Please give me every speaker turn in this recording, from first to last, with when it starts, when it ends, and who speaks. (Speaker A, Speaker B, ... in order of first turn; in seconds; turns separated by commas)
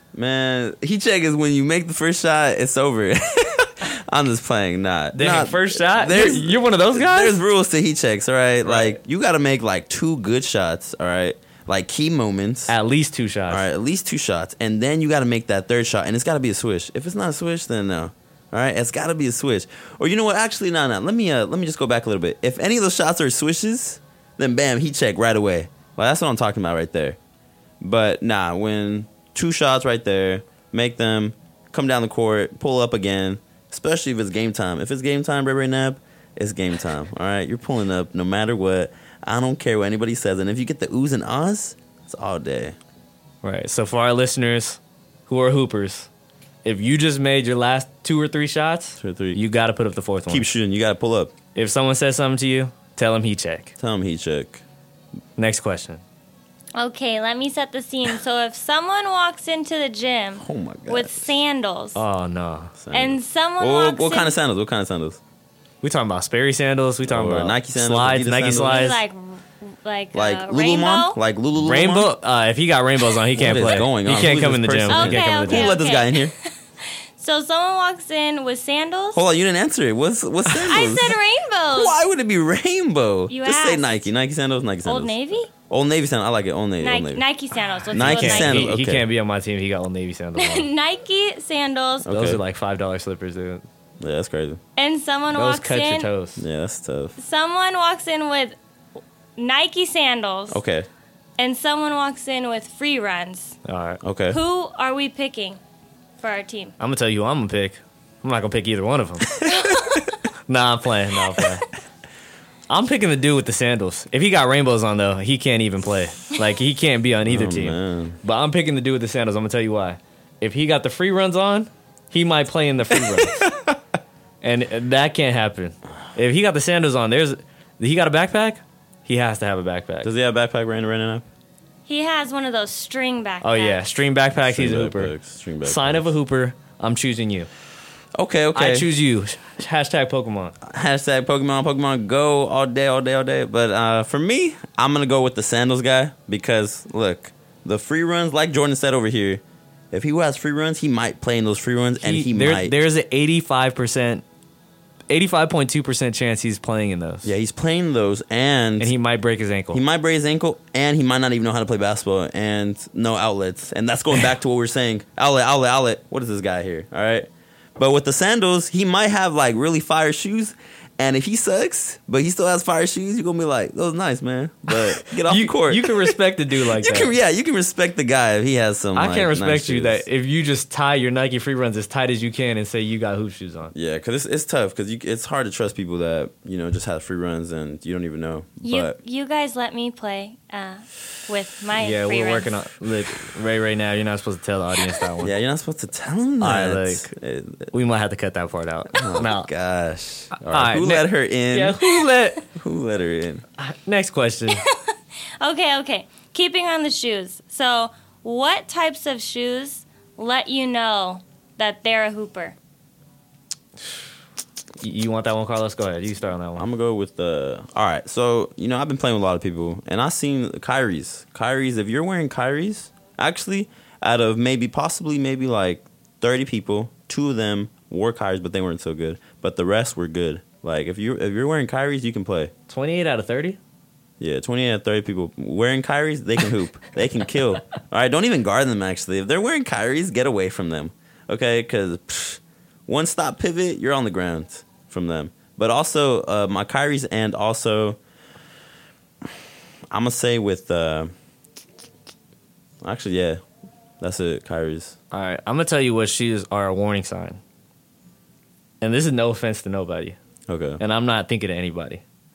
Speaker A: 0.1-12.8, Speaker B: 5.1-7.4, Speaker B: 8.6-9.0, Speaker B: 12.7-13.7, Speaker A: 13.5-27.2, Speaker A: 27.8-42.8, Speaker B: 43.4-46.1, Speaker B: 46.6-50.6, Speaker A: 49.0-49.4, Speaker A: 50.3-51.3, Speaker B: 51.5-53.7, Speaker A: 53.8-54.6, Speaker B: 55.4-56.0, Speaker C: 56.8-62.0, Speaker A: 60.4-61.4, Speaker B: 62.0-62.7, Speaker A: 62.8-65.2, Speaker C: 62.9-64.4, Speaker B: 65.8-69.0, Speaker A: 67.1-69.0, Speaker C: 68.5-71.2, Speaker A: 70.1-72.1, Speaker B: 71.5-75.8, Speaker A: 73.4-76.3, Speaker C: 74.9-76.5, Speaker C: 77.2-79.2, Speaker A: 79.2-81.2, Speaker C: 80.7-82.0, Speaker A: 81.7-85.2, Speaker C: 83.3-83.8, Speaker C: 84.8-85.5, Speaker A: 85.7-87.2, Speaker C: 86.8-88.7, Speaker A: 87.9-89.1, Speaker B: 87.9-90.7, Speaker C: 90.4-92.1, Speaker A: 92.0-92.4, Speaker B: 92.1-93.6, Speaker A: 94.0-94.6, Speaker C: 94.8-96.1, Speaker B: 95.3-96.4, Speaker A: 96.4-97.2, Speaker C: 97.2-98.6, Speaker C: 99.4-100.6, Speaker A: 100.5-100.9, Speaker C: 101.4-103.6, Speaker B: 103.7-104.0, Speaker A: 104.0-104.4, Speaker C: 104.3-105.6, Speaker C: 106.2-106.8, Speaker B: 106.8-109.8, Speaker B: 110.5-111.7, Speaker B: 112.7-123.5, Speaker A: 117.2-118.2, Speaker B: 124.4-130.1, Speaker A: 130.0-131.2, Speaker C: 131.9-133.8, Speaker B: 133.4-137.5, Speaker A: 134.3-136.1, Speaker A: 138.2-138.9, Speaker B: 138.5-140.6, Speaker A: 140.6-152.8, Speaker B: 152.0-154.2, Speaker B: 155.1-157.3, Speaker A: 157.2-158.9, Speaker B: 158.8-159.8, Speaker A: 159.7-180.0, Speaker B: 175.0-177.1, Speaker B: 178.9-183.7, Speaker A: 183.7-189.0, Speaker C: 188.6-192.6, Speaker B: 191.8-195.3, Speaker A: 195.2-197.7, Speaker B: 196.4-197.1, Speaker B: 197.7-199.5, Speaker A: 199.0-201.8, Speaker B: 200.3-202.4, Speaker A: 202.5-203.4, Speaker B: 203.6-204.6, Speaker C: 204.5-212.6, Speaker B: 214.8-216.7, Speaker A: 216.6-232.5, Speaker B: 232.7-233.6, Speaker A: 234.2-248.0, Speaker A: 249.9-251.1, Speaker A: 252.8-253.4, Speaker A: 254.0-255.0, Speaker B: 255.1-257.4, Speaker B: 258.8-260.2, Speaker A: 260.5-260.8, Speaker B: 260.8-262.0